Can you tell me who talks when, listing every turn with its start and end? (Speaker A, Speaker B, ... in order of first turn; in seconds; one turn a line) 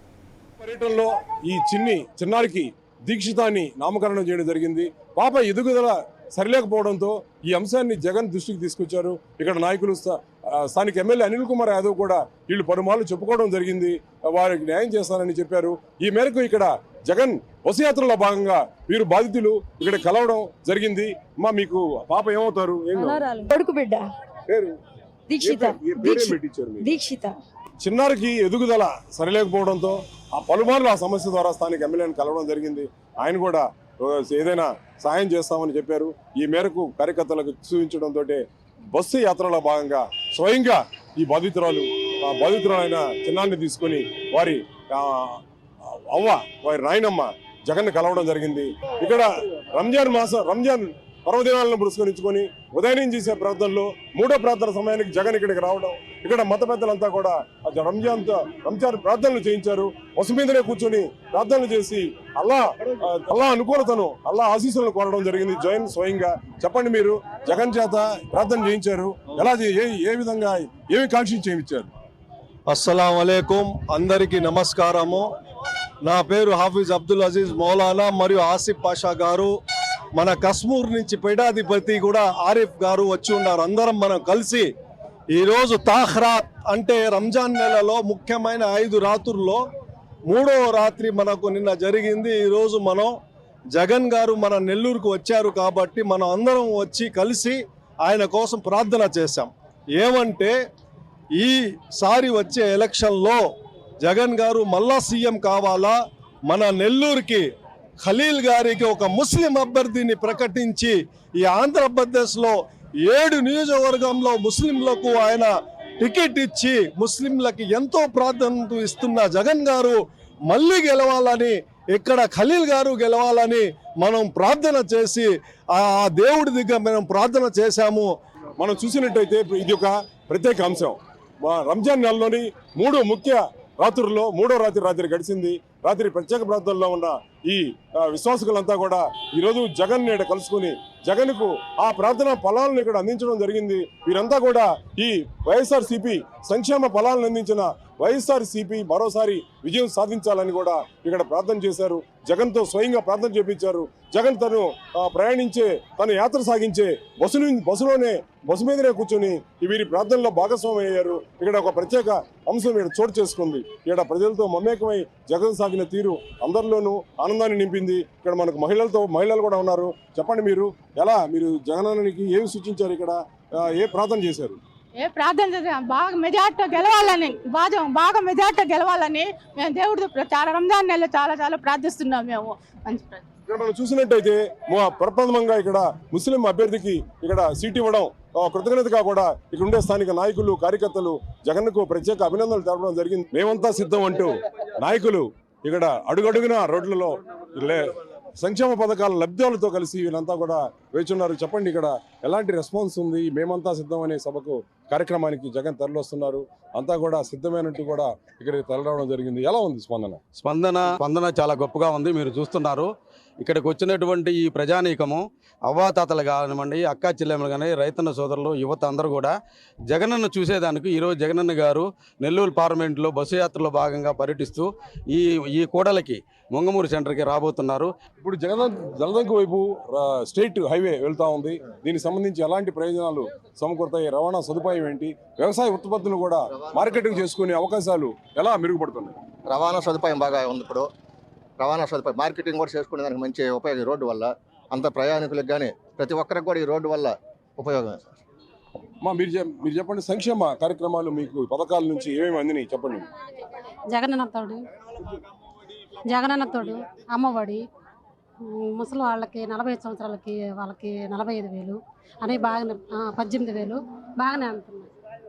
Speaker A: 0.6-23.2
Speaker B: 22.9-24.1
Speaker A: 24.5-24.8
Speaker B: 25.3-27.4
Speaker A: 25.4-26.9
Speaker A: 27.8-71.9
Speaker C: 72.7-75.3
Speaker C: 76.0-79.6
Speaker C: 80.2-84.7
Speaker C: 85.3-89.6
Speaker C: 90.3-93.1
Speaker C: 93.7-100.5
Speaker C: 101.4-103.4
Speaker C: 104.0-106.0
Speaker C: 106.5-107.5
Speaker C: 108.0-120.0
Speaker C: 120.5-128.1
Speaker A: 128.6-174.6
Speaker D: 174.9-183.2
Speaker A: 183.5-210.2
Speaker E: 210.4-212.9
Speaker E: 213.4-219.3
Speaker E: 219.9-227.9
Speaker A: 228.2-239.2
Speaker F: 236.6-237.2
Speaker F: 239.5-240.9
Speaker F: 241.6-248.1
Speaker A: 249.0-253.0
Speaker G: 253.9-254.7
Speaker G: 256.1-257.6
Speaker G: 258.5-264.9